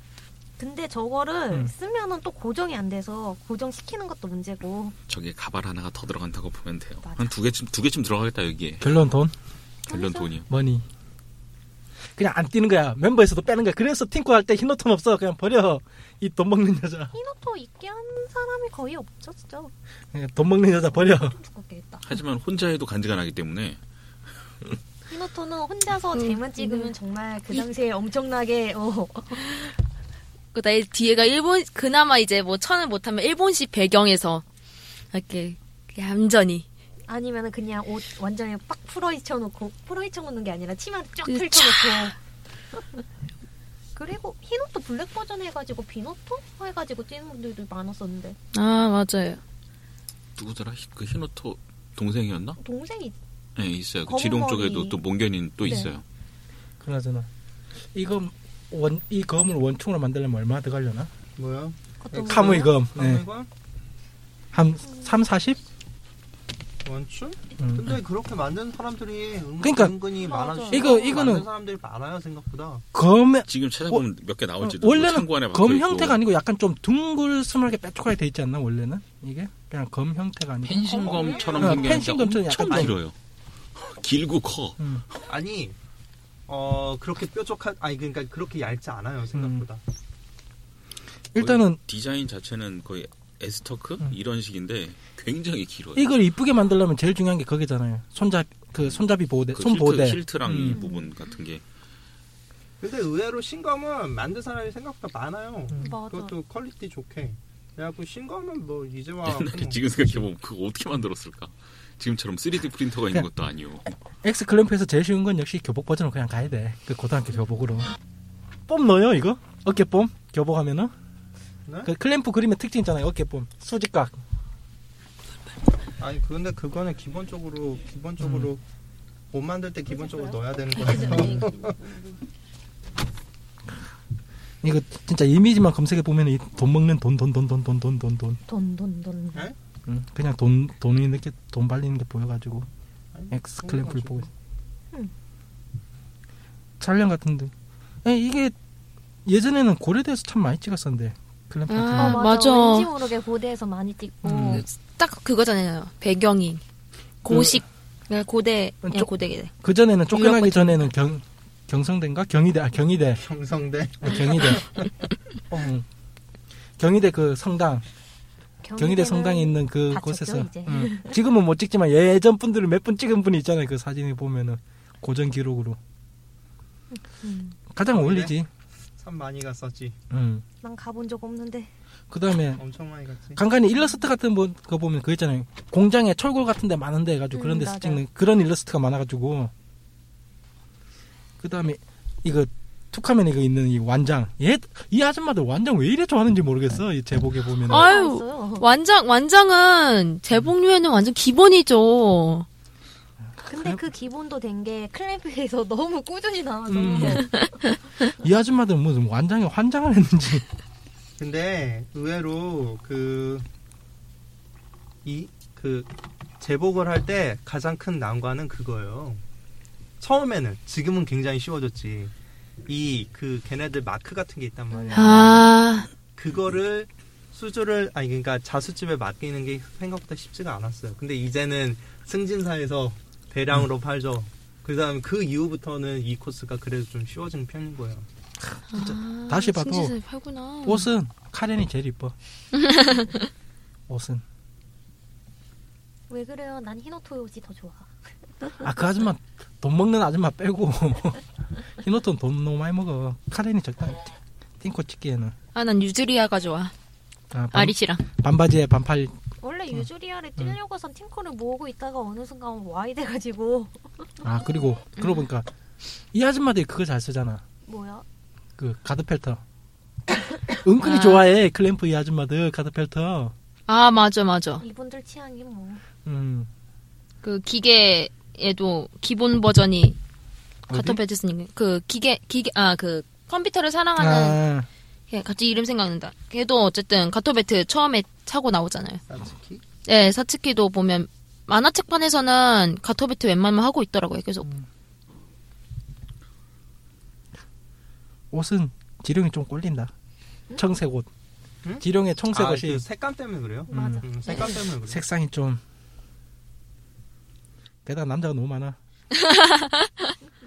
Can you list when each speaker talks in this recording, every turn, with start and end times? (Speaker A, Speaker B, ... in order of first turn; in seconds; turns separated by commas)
Speaker A: 0.6-4.9, Speaker B: 5.1-9.0, Speaker A: 7.0-7.4, Speaker C: 8.8-9.3, Speaker A: 9.9-10.3, Speaker B: 9.9-10.5, Speaker C: 10.5-10.8, Speaker C: 12.2-17.1, Speaker A: 17.1-19.7, Speaker C: 20.1-21.4, Speaker A: 20.9-22.1, Speaker B: 22.0-23.8, Speaker A: 25.1-29.7, Speaker D: 26.1-26.9, Speaker D: 30.5-34.4, Speaker D: 35.1-36.6, Speaker A: 37.1-42.1, Speaker D: 41.2-42.1, Speaker A: 42.7-43.0, Speaker A: 44.0-48.4, Speaker D: 48.5-49.4, Speaker B: 50.4-52.6, Speaker A: 52.6-53.1, Speaker B: 53.5-56.0, Speaker A: 54.1-55.0, Speaker A: 55.6-55.9, Speaker C: 56.8-57.3, Speaker C: 57.9-61.1, Speaker E: 61.4-63.5, Speaker A: 62.0-62.8, Speaker C: 62.2-63.2, Speaker C: 64.5-65.6, Speaker E: 66.8-72.8, Speaker C: 67.6-68.0, Speaker C: 69.6-69.9, Speaker A: 70.2-71.2, Speaker C: 70.7-71.5, Speaker C: 72.9-74.0, Speaker B: 73.5-76.2, Speaker C: 74.6-80.9, Speaker B: 80.6-83.1, Speaker A: 80.8-82.0, Speaker E: 81.0-82.0, Speaker C: 81.6-83.0, Speaker B: 83.8-84.8, Speaker C: 84.8-85.0, Speaker E: 85.3-85.8, Speaker E: 86.5-89.8, Speaker C: 89.3-89.6, Speaker C: 91.3-91.8, Speaker B: 91.3-96.1, Speaker C: 96.0-100.8, Speaker B: 99.5-101.6, Speaker A: 100.7-101.2, Speaker E: 102.8-110.3, Speaker C: 105.7-106.0, Speaker A: 105.8-106.3, Speaker B: 109.2-113.9, Speaker C: 114.1-117.9, Speaker C: 118.7-120.9, Speaker E: 121.7-121.9, Speaker C: 121.8-124.2, Speaker E: 126.0-128.6, Speaker C: 128.2-128.5, Speaker E: 129.3-131.8, Speaker A: 129.9-132.0, Speaker C: 134.6-138.4, Speaker A: 138.5-139.4, Speaker C: 139.9-142.7, Speaker E: 143.1-144.3, Speaker C: 143.3-144.3, Speaker C: 146.8-147.5, Speaker C: 148.0-148.5, Speaker C: 149.2-152.2, Speaker D: 151.7-152.9, Speaker A: 151.9-154.7, Speaker C: 154.2-154.6, Speaker D: 154.4-156.6, Speaker D: 157.2-159.5, Speaker C: 157.3-157.6, Speaker C: 158.8-163.2, Speaker D: 160.1-160.8, Speaker E: 163.2-164.9, Speaker C: 164.0-164.6, Speaker C: 165.5-165.8, Speaker C: 166.8-167.8, Speaker A: 168.6-171.2, Speaker C: 168.8-175.8, Speaker A: 176.9-177.6, Speaker C: 177.7-178.5, Speaker E: 177.9-178.3, Speaker E: 179.0-180.0, Speaker C: 180.1-180.4, Speaker A: 180.6-181.7, Speaker C: 182.1-182.6, Speaker E: 182.5-183.4, Speaker C: 183.3-189.5, Speaker A: 187.3-188.0, Speaker C: 191.4-197.9, Speaker D: 197.7-202.4, Speaker A: 197.7-198.7, Speaker C: 203.4-203.8, Speaker A: 203.4-207.7, Speaker C: 206.7-207.3, Speaker D: 207.0-207.5, Speaker C: 208.2-210.4, Speaker E: 211.2-213.5, Speaker E: 215.0-219.2, Speaker E: 220.0-222.1, Speaker E: 222.7-225.5, Speaker C: 224.7-225.4, Speaker D: 224.9-225.9, Speaker E: 226.1-238.1, Speaker C: 238.5-239.9, Speaker D: 238.7-240.9, Speaker C: 240.6-242.1, Speaker D: 242.5-243.2, Speaker C: 243.9-244.2, Speaker A: 246.1-248.6, Speaker C: 248.6-251.2, Speaker C: 251.8-255.3, Speaker D: 255.5-256.7, Speaker C: 257.3-259.1, Speaker D: 257.5-258.0, Speaker A: 259.4-264.5, Speaker C: 264.2-265.5, Speaker D: 265.0-265.2, Speaker C: 266.1-267.4, Speaker A: 267.6-268.0, Speaker C: 268.6-269.4, Speaker C: 270.6-273.3, Speaker D: 270.8-271.2, Speaker D: 273.7-274.6, Speaker A: 274.6-275.8, Speaker C: 276.0-276.5, Speaker D: 277.2-280.0, Speaker C: 280.7-281.0, Speaker D: 280.7-284.4, Speaker C: 283.9-284.7, Speaker D: 285.1-289.0, Speaker E: 289.1-289.6, Speaker D: 289.9-294.4, Speaker C: 298.3-299.9, Speaker C: 300.6-301.1, Speaker E: 301.6-305.0, Speaker C: 301.8-302.8, Speaker A: 303.7-304.6, Speaker C: 303.7-304.0, Speaker C: 304.9-305.6, Speaker C: 307.8-308.8, Speaker D: 309.1-310.1